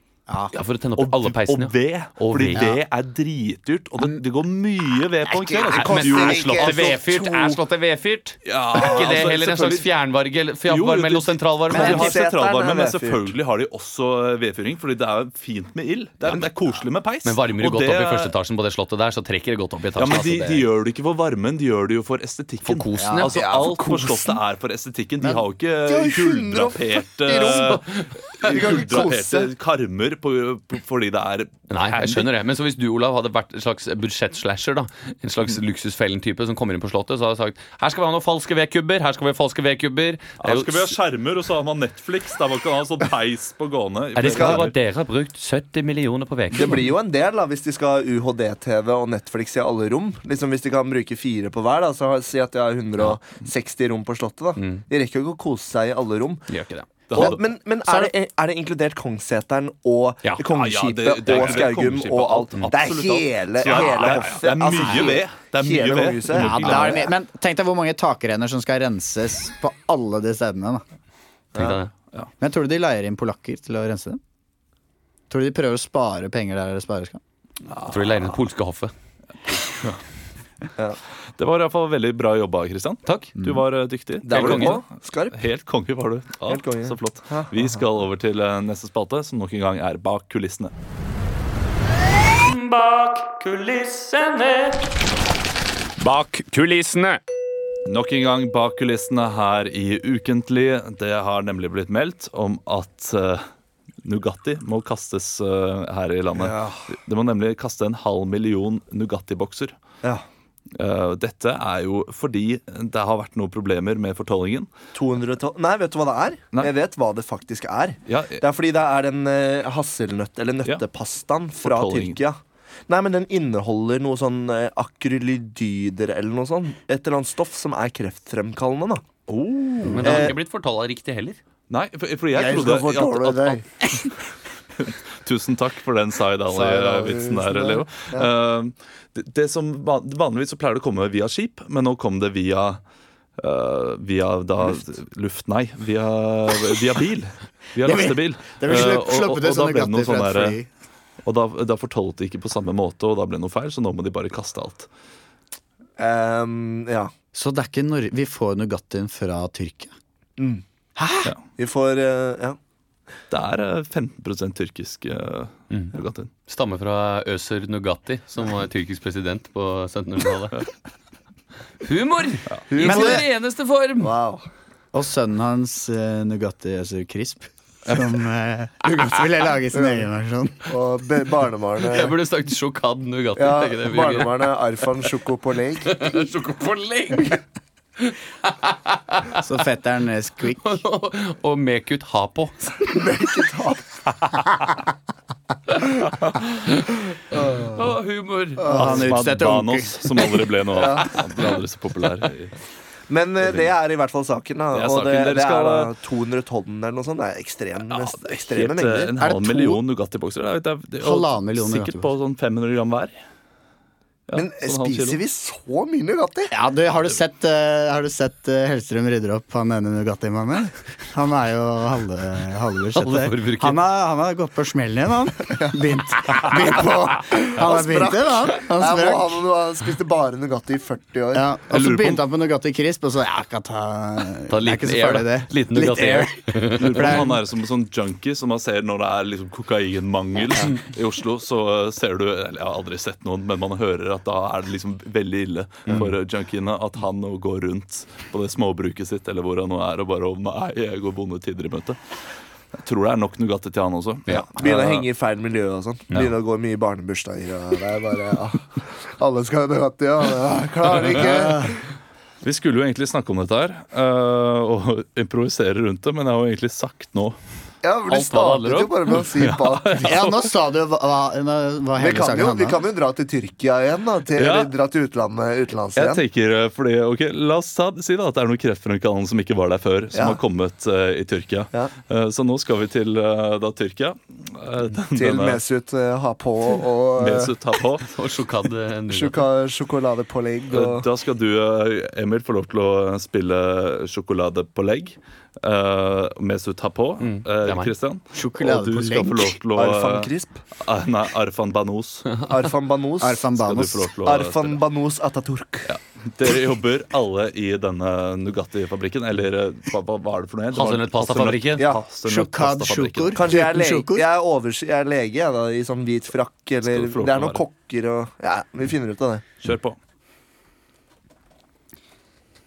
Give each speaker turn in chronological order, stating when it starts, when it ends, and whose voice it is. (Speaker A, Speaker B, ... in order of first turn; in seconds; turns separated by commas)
Speaker A: 0.3-0.5, Speaker B: 0.5-2.7, Speaker C: 1.0-7.6, Speaker A: 2.5-2.8, Speaker D: 5.3-7.0, Speaker B: 5.8-12.1, Speaker C: 8.4-9.9, Speaker C: 10.7-18.3, Speaker D: 11.7-13.3, Speaker B: 17.2-20.7, Speaker C: 20.0-32.3, Speaker B: 22.6-23.4, Speaker A: 23.0-23.3, Speaker D: 23.3-24.3, Speaker D: 25.9-27.9, Speaker D: 28.4-29.5, Speaker B: 31.7-40.9, Speaker C: 40.4-44.7, Speaker B: 44.1-46.9, Speaker D: 44.2-44.7, Speaker D: 46.5-56.5, Speaker B: 54.6-54.8, Speaker B: 56.5-56.9, Speaker C: 57.1-57.4, Speaker D: 57.1-67.0, Speaker C: 60.5-67.1, Speaker A: 66.3-70.8, Speaker B: 71.5-71.9, Speaker A: 72.4-74.2, Speaker A: 75.3-77.2, Speaker C: 77.7-78.4, Speaker B: 77.8-78.9, Speaker C: 79.5-80.0, Speaker C: 81.4-90.7, Speaker B: 83.0-83.3, Speaker D: 84.2-85.4, Speaker B: 84.3-84.8, Speaker D: 86.5-87.8, Speaker B: 92.4-94.8, Speaker B: 96.0-97.2, Speaker C: 97.8-103.5, Speaker C: 104.0-109.7, Speaker D: 106.3-106.9, Speaker C: 110.7-114.7, Speaker D: 114.9-129.0, Speaker C: 118.1-118.4, Speaker C: 121.6-122.2, Speaker C: 129.3-130.3, Speaker B: 129.9-131.4, Speaker D: 129.9-130.3, Speaker C: 131.7-134.1, Speaker D: 132.3-133.6, Speaker C: 134.8-142.8, Speaker D: 136.5-138.3, Speaker C: 143.4-150.6, Speaker A: 147.8-150.7, Speaker C: 151.2-154.9, Speaker D: 156.0-157.1, Speaker A: 157.3-159.9, Speaker D: 160.4-160.6, Speaker A: 161.0-161.3, Speaker D: 161.6-162.6, Speaker C: 163.3-166.3, Speaker B: 166.5-170.6, Speaker B: 171.8-174.1, Speaker D: 172.7-173.2, Speaker A: 172.8-173.2, Speaker D: 174.0-174.4, Speaker A: 174.9-180.7, Speaker D: 180.7-182.2, Speaker B: 181.8-184.5, Speaker D: 183.4-186.1, Speaker B: 185.8-187.4, Speaker B: 188.0-189.4, Speaker A: 189.3-190.8, Speaker B: 190.6-192.8, Speaker D: 192.9-193.8, Speaker B: 195.7-196.9, Speaker D: 197.3-197.8, Speaker B: 197.6-198.7, Speaker D: 198.6-199.1, Speaker A: 198.6-200.3, Speaker C: 198.7-202.6, Speaker D: 200.7-201.2, Speaker D: 203.1-209.3, Speaker C: 203.4-203.7, Speaker C: 204.7-205.9, Speaker C: 207.9-213.1, Speaker A: 209.2-209.8, Speaker A: 211.0-212.1, Speaker C: 214.3-215.2, Speaker D: 214.3-216.5, Speaker A: 216.5-229.4, Speaker B: 223.0-223.8, Speaker D: 227.4-231.5, Speaker A: 231.3-237.4, Speaker C: 231.7-232.2, Speaker B: 234.5-237.2, Speaker C: 236.8-252.0, Speaker C: 252.8-255.1, Speaker D: 254.3-261.8, Speaker A: 261.3-261.7, Speaker C: 262.4-267.4, Speaker D: 267.8-270.2, Speaker B: 268.1-269.2, Speaker C: 269.3-270.4, Speaker A: 270.0-272.9, Speaker D: 271.9-276.2, Speaker C: 274.3-274.7, Speaker C: 275.9-285.6, Speaker D: 280.1-280.4, Speaker D: 285.1-287.5, Speaker C: 287.1-288.1, Speaker B: 288.0-289.4, Speaker D: 289.1-291.1, Speaker C: 290.7-302.4, Speaker B: 297.2-297.9, Speaker A: 298.3-299.6, Speaker D: 299.7-300.6, Speaker D: 302.4-303.4, Speaker A: 303.2-304.1, Speaker C: 303.5-304.8, Speaker D: 304.2-305.9, Speaker C: 305.9-313.4, Speaker B: 310.7-311.9, Speaker A: 312.2-314.3, Speaker D: 313.4-319.4, Speaker C: 316.8-317.6, Speaker C: 319.6-320.0